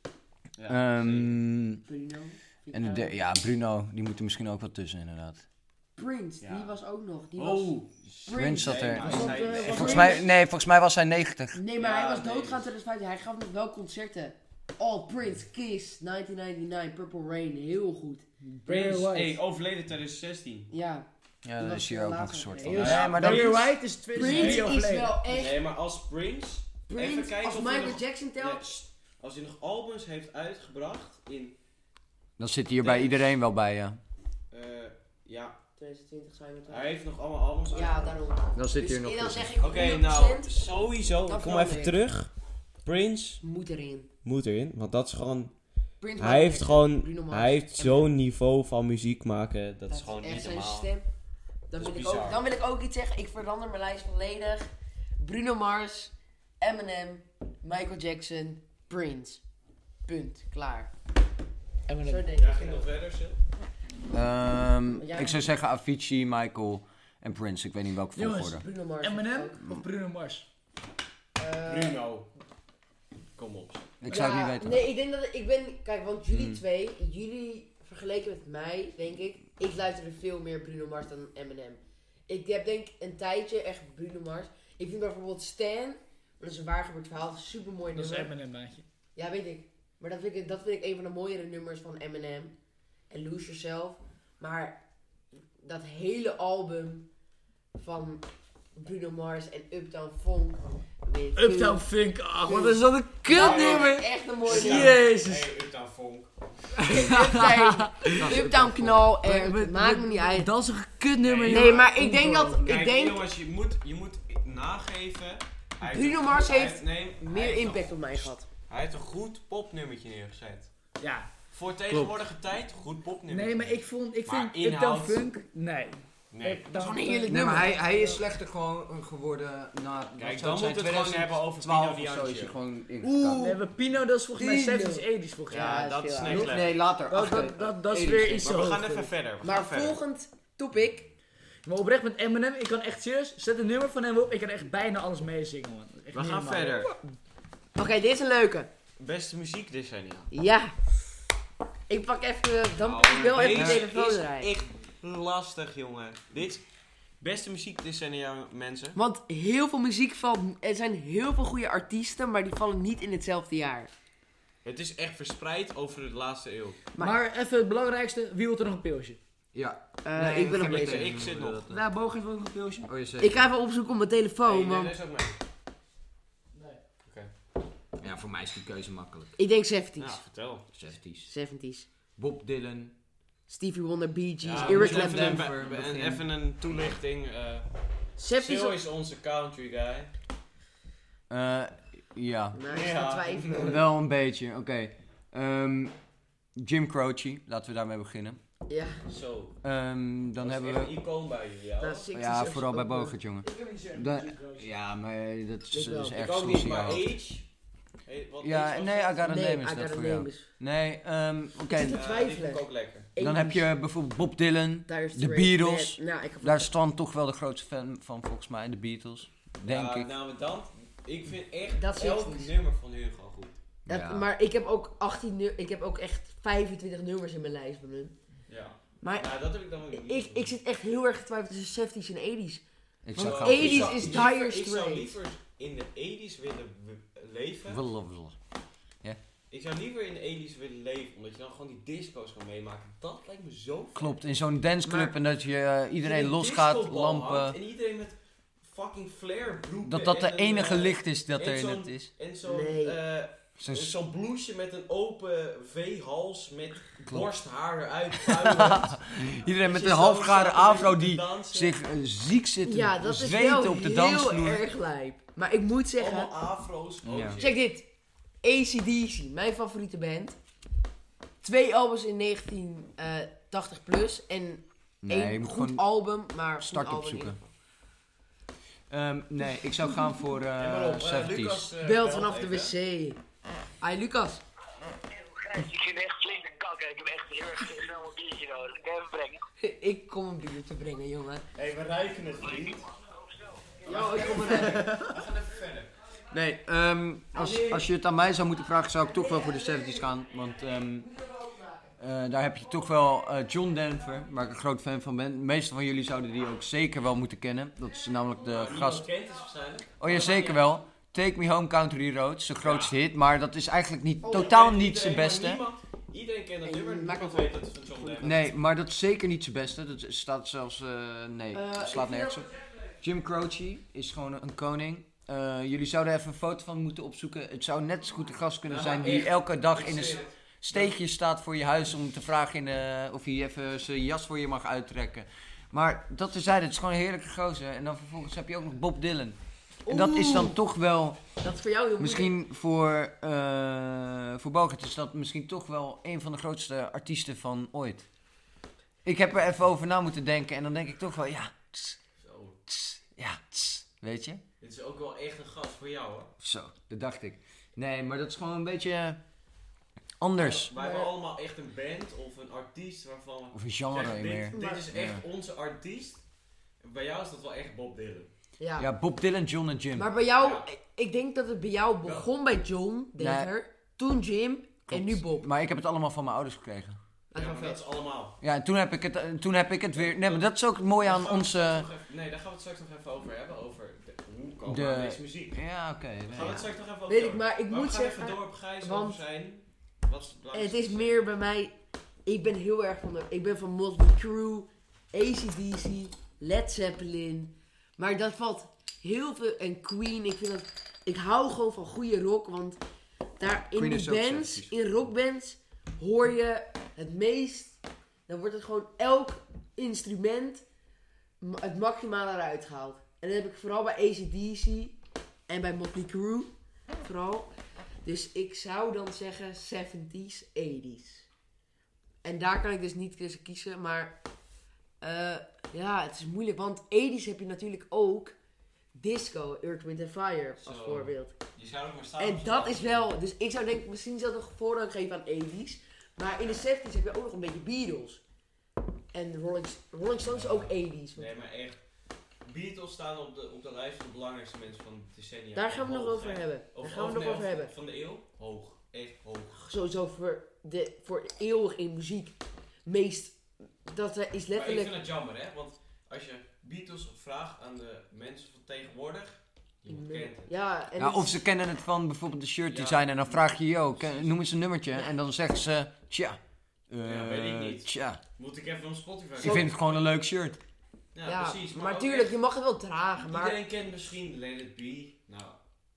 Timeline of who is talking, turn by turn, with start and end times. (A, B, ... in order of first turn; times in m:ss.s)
0:00.6-0:01.4 A
0:00.7-0:01.8 B
0:01.9-0:03.1 C
0:02.7-0:05.4 B
0:06.0-0:10.2 C
0:06.4-0:06.7 A
0:07.3-0:10.2 A
0:08.3-0:11.6 B
0:09.0-0:10.2 D
0:11.5-0:18.3 C
0:11.8-0:12.7 A
0:18.4-0:19.4 D
0:18.7-0:20.7 A
0:20.7-0:21.1 C
0:21.4-0:23.7 B
0:21.6-0:23.3 C
0:22.6-0:25.1 D
0:22.7-0:31.6 A
0:24.1-0:25.6 C
0:26.9-0:28.7 C
0:32.4-0:34.0 B
0:32.8-0:33.3 A
0:34.5-0:35.6 A
0:35.8-0:37.0 C
0:36.7-0:38.2 A
0:37.7-0:40.5 C
0:38.5-0:39.5 B
0:39.6-0:42.3 A
0:41.2-0:42.0 C
0:42.8-0:43.4 A
0:43.4-0:44.1 C
0:44.2-0:45.5 A
0:46.0-0:48.1 C
0:46.2-0:50.9 A
0:49.9-0:51.0 C
0:51.7-0:54.7 C
0:51.8-0:52.4 A
0:55.2-0:59.4 C
1:00.0-1:00.9 C
1:01.9-1:02.3 D
1:02.0-1:02.9 C
1:02.3-1:03.4 A
1:04.1-1:08.6 B
1:05.0-1:05.4 C
1:08.1-1:10.5 D
1:08.5-1:09.6 C
1:11.4-1:12.1 C
1:11.6-1:12.3 A
1:13.4-1:13.9 A
1:14.0-1:14.8 B
1:14.0-1:28.3 C
1:16.3-1:16.6 B
1:27.9-1:28.8 D
1:29.1-1:32.5 C
1:33.1-1:34.8 C
1:35.6-1:37.1 C
1:37.7-1:38.2 C
1:38.8-1:41.8 C
1:41.3-1:45.5 D
1:42.4-1:45.0 C
1:43.3-1:46.3 A
1:46.7-1:48.2 D
1:46.8-1:50.5 C
1:48.2-1:49.1 B
1:49.2-1:52.8 D
1:51.2-1:52.0 A
1:51.5-1:53.2 C
1:52.6-2:00.7 A
1:55.8-1:58.4 C
2:01.0-2:01.3 D
2:01.5-2:05.2 A
2:01.9-2:02.2 B
2:03.3-2:08.2 D
2:06.3-2:06.7 A
2:06.7-2:08.0 C
2:07.3-2:13.5 B
2:10.2-2:12.6 A
2:13.0-2:13.6 C
2:13.4-2:15.9 D
2:14.4-2:16.6 C
2:15.5-2:16.8 A
2:16.2-2:18.6 B
2:17.1-2:19.1 D
2:18.4-2:20.0 A
2:19.4-2:21.1 C
2:21.6-2:26.8 D
2:26.1-2:26.9 A
2:27.7-2:28.7 C
2:29.0-2:30.3 A
2:30.3-2:30.7 C
2:31.9-2:34.5 C
2:32.8-2:36.6 A
2:33.3-2:33.9 B
2:37.2-2:39.0 A
2:38.9-2:43.9 C
2:44.6-2:46.8 A
2:47.0-2:49.2 D
2:49.5-2:51.8 B
2:50.0-2:51.2 C
2:50.4-2:51.7 A
2:51.7-2:52.9 D
2:52.9-2:53.5 B
2:53.2-2:54.9 C
2:54.4-2:55.4 A
2:56.5-2:56.8 D
2:57.0-2:57.3 A
2:58.0-2:59.4 B
2:59.4-3:00.2 C
3:00.0-3:00.6 A
3:00.7-3:01.3 B
3:01.2-3:01.9 C
3:02.2-3:02.9 B
3:03.5-3:05.5 C
3:04.4-3:07.7 A
3:04.5-3:06.2 B
3:08.2-3:08.8 C
3:08.4-3:10.1 A
3:11.3-3:12.6 B
3:12.5-3:13.8 C
3:12.7-3:13.8 A
3:13.5-3:15.9 B
3:16.6-3:18.4 B
3:18.7-3:19.0 C
3:19.1-3:19.6 A
3:19.6-3:21.0 B
3:20.4-3:22.1 A
3:21.8-3:23.1 C
3:22.1-3:27.1 B
3:23.4-3:24.7 D
3:25.7-3:26.2 C
3:26.1-3:27.4 A
3:28.0-3:29.2 A
3:28.4-3:32.0 B
3:29.2-3:30.4 C
3:31.7-3:33.7 C
3:31.8-3:33.1 A
3:33.2-3:40.1 B
3:34.9-3:36.7 C
3:39.6-3:43.6 A
3:41.8-3:42.5 C
3:43.8-3:44.3 B
3:43.9-3:48.1 C
3:48.5-3:50.5 A
3:49.0-3:49.3 C
3:49.9-3:52.6 C
3:53.0-3:54.3 B
3:53.1-3:55.1 C
3:53.2-3:57.8 A
3:57.7-3:58.4 B
3:59.5-4:04.1 A
4:03.9-4:07.6 B
4:04.8-4:05.1 C
4:06.0-4:21.8 A
4:09.8-4:12.1 B
4:12.4-4:13.0 C
4:13.6-4:13.9 B
4:18.2-4:24.6 B
4:22.6-4:26.3 C
4:26.0-4:27.6 A
4:27.0-4:27.4 B
4:27.4-4:27.8 C
4:28.4-4:30.4 C
4:31.4-4:37.4 C
4:35.0-4:35.8 B
4:36.6-4:37.4 B
4:38.9-4:41.7 B
4:40.6-4:42.7 A
4:41.8-4:43.2 C
4:43.8-4:44.4 C
4:45.1-4:49.4 E
4:49.6-4:51.4 C
4:51.5-4:52.9 A
4:52.6-4:53.8 E
4:53.8-4:54.9 C
4:53.8-4:55.9 A
4:54.3-4:55.2 B
4:56.3-5:01.1 B
4:57.3-4:57.9 C
4:58.9-5:01.9 C
5:02.0-5:09.1 B
5:08.4-5:10.7 A
5:10.0-5:15.6 B
5:12.6-5:12.9 A
5:14.2-5:14.5 C
5:14.2-5:18.5 A
5:16.6-5:18.4 C
5:18.2-5:41.3 B
5:21.5-5:22.5 C
5:28.7-5:30.9 A
5:39.8-5:40.6 C
5:41.4-5:42.3 C
5:42.0-5:48.1 B
5:49.0-5:52.0 B
5:52.2-5:52.6 A
5:52.7-5:54.4 B
5:54.6-5:56.3 A
5:56.4-5:59.2 B
6:00.2-6:00.7 B
6:00.4-6:06.2 A
6:00.7-6:01.1 C
6:03.5-6:05.2 B
6:04.5-6:04.9 C
6:06.8-6:08.3 A
6:08.6-6:08.9 C
6:08.8-6:10.1 B
6:09.9-6:15.5 C
6:10.4-6:10.6 A
6:12.0-6:12.3 A
6:13.2-6:13.5 B
6:14.9-6:17.0 B
6:17.3-6:17.8 C
6:17.3-6:18.4 A
6:18.4-6:21.9 B
6:20.0-6:25.6 A
6:24.6-6:26.7 B
6:26.3-6:31.3 A
6:27.1-6:29.2 C
6:30.5-6:42.8 C
6:43.4-6:50.6 C
6:43.7-6:44.7 B
6:51.4-6:55.0 C
6:55.5-6:57.5 C
6:58.0-7:01.3 C
7:02.2-7:04.2 C
7:05.0-7:08.4 C
7:08.9-7:11.3 C
7:10.6-7:13.1 A
7:12.2-7:18.2 C
7:19.1-7:21.3 C
7:20.2-7:21.8 A
7:22.4-7:29.7 A
7:25.5-7:27.7 C
7:29.6-7:34.9 C
7:34.5-7:40.5 A
7:39.9-7:41.4 C
7:41.0-7:48.2 B
7:42.7-7:44.4 A
7:47.0-7:50.0 A
7:49.4-7:49.7 C
7:49.4-7:50.6 B
7:51.1-7:52.4 A
7:51.2-7:53.6 C
7:53.2-7:55.6 A